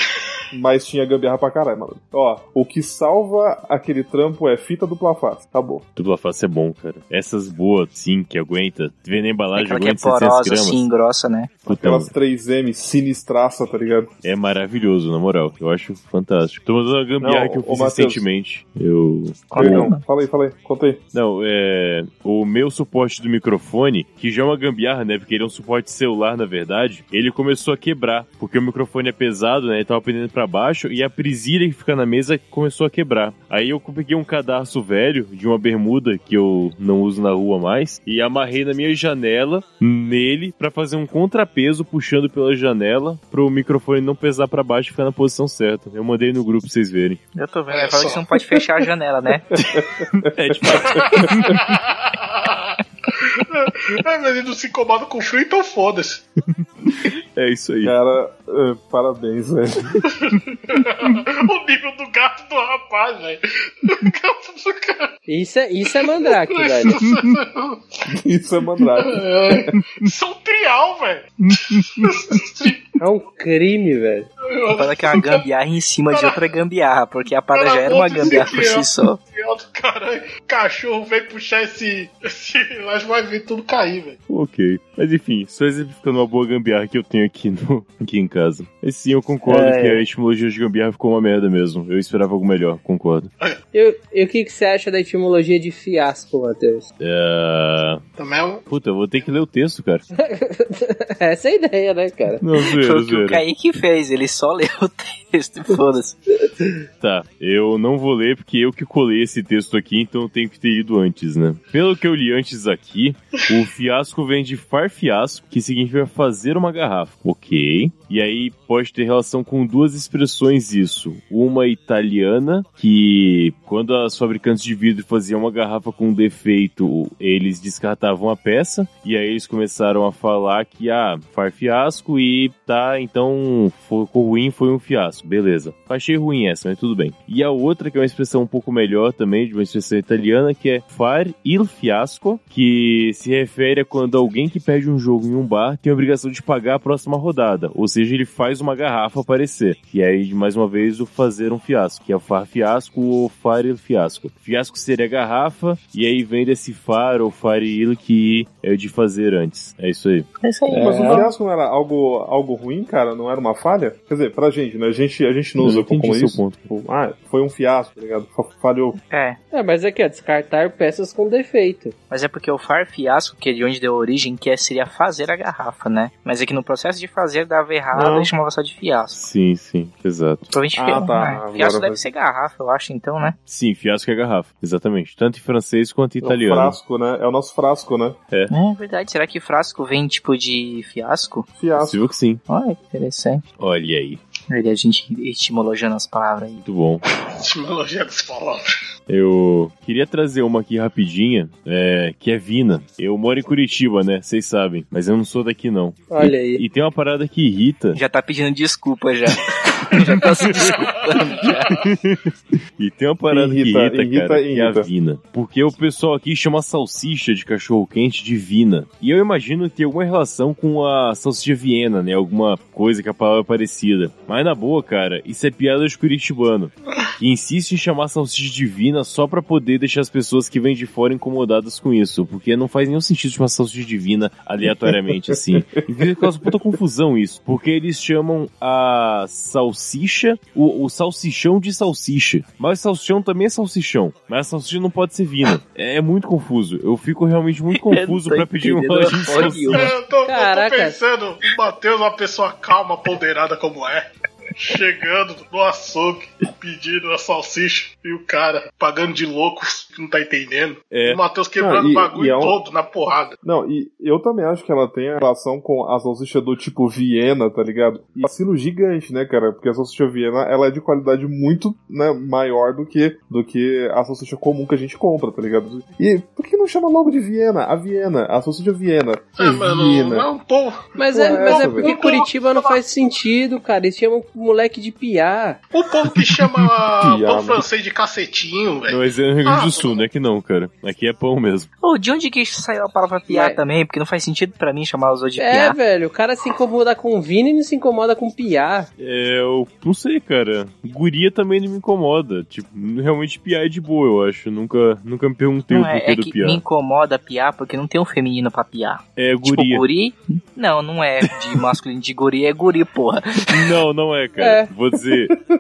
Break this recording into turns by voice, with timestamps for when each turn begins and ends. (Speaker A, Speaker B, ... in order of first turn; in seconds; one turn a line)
Speaker A: 0.5-5.8
Speaker B: 6.0-10.8
Speaker C: 9.6-11.6
Speaker B: 11.7-12.1
Speaker A: 11.7-14.1
Speaker B: 14.2-19.9
Speaker A: 17.2-18.2
Speaker C: 19.5-20.0
Speaker A: 19.6-21.0
Speaker B: 21.1-47.2
Speaker C: 47.3-49.5
Speaker D: 47.7-48.2
Speaker A: 49.5-51.5
Speaker B: 49.6-51.6
Speaker D: 50.7-56.2
Speaker B: 56.8-57.9
Speaker A: 57.8-60.0
Speaker D: 60.0-65.1
Speaker E: 65.3-67.0
Speaker D: 66.2-68.0
Speaker A: 68.1-69.7
Speaker D: 69.0-72.8
Speaker B: 71.4-72.1
Speaker E: 73.0-74.3
Speaker D: 74.5-75.4
Speaker C: 74.8-79.2
Speaker D: 76.1-76.4
Speaker D: 77.5-84.2
Speaker B: 84.3-93.3
Speaker E: 89.4-90.0
Speaker E: 93.7-96.8
Speaker B: 97.0-98.0
Speaker D: 98.2-98.6
Speaker B: 98.7-100.0
Speaker E: 100.2-102.5
Speaker B: 102.4-103.4
Speaker C: 102.7-106.2
Speaker B: 107.0-160.3
Speaker C: 160.4-161.3
Speaker E: 160.7-161.3
Speaker A: 160.7-169.0
Speaker B: 165.6-166.7
Speaker C: 169.1-169.4
Speaker E: 169.5-171.9
Speaker C: 172.1-179.2
Speaker A: 177.9-178.3
Speaker B: 179.2-180.5
Speaker C: 180.5-183.3
Speaker A: 180.8-182.0
Speaker B: 183.5-186.8
Speaker A: 186.2-188.2
Speaker C: 188.5-191.5
Speaker A: 191.6-192.1
Speaker B: 191.7-192.4
Speaker C: 192.5-193.4
Speaker B: 193.6-194.2
Speaker C: 194.5-196.6
Speaker B: 196.6-197.0
Speaker D: 197.3-198.7
Speaker B: 199.1-208.0
Speaker E: 206.1-206.6
Speaker C: 207.9-211.8
Speaker B: 209.9-210.7
Speaker B: 211.7-249.9
Speaker A: 213.3-214.9
Speaker A: 234.6-236.7
Speaker C: 247.7-249.9
Speaker D: 249.3-254.0
Speaker E: 250.2-251.0
Speaker D: 254.6-263.4
Speaker B: 260.9-261.2
Speaker A: 261.6-262.6
Speaker A: 263.4-280.3
Speaker D: 279.4-282.8
Speaker E: 281.0-285.6
Speaker A: 281.1-281.9
Speaker D: 285.7-290.0
Speaker A: 287.0-287.6
Speaker B: 288.9-291.7
Speaker C: 291.8-295.8
Speaker E: 293.3-293.6
Speaker E: 295.4-298.9
Speaker B: 299.0-306.6
Speaker C: 305.7-313.8
Speaker B: 309.2-309.8
Speaker B: 311.2-311.6
Speaker B: 313.5-315.3
Speaker E: 314.4-314.7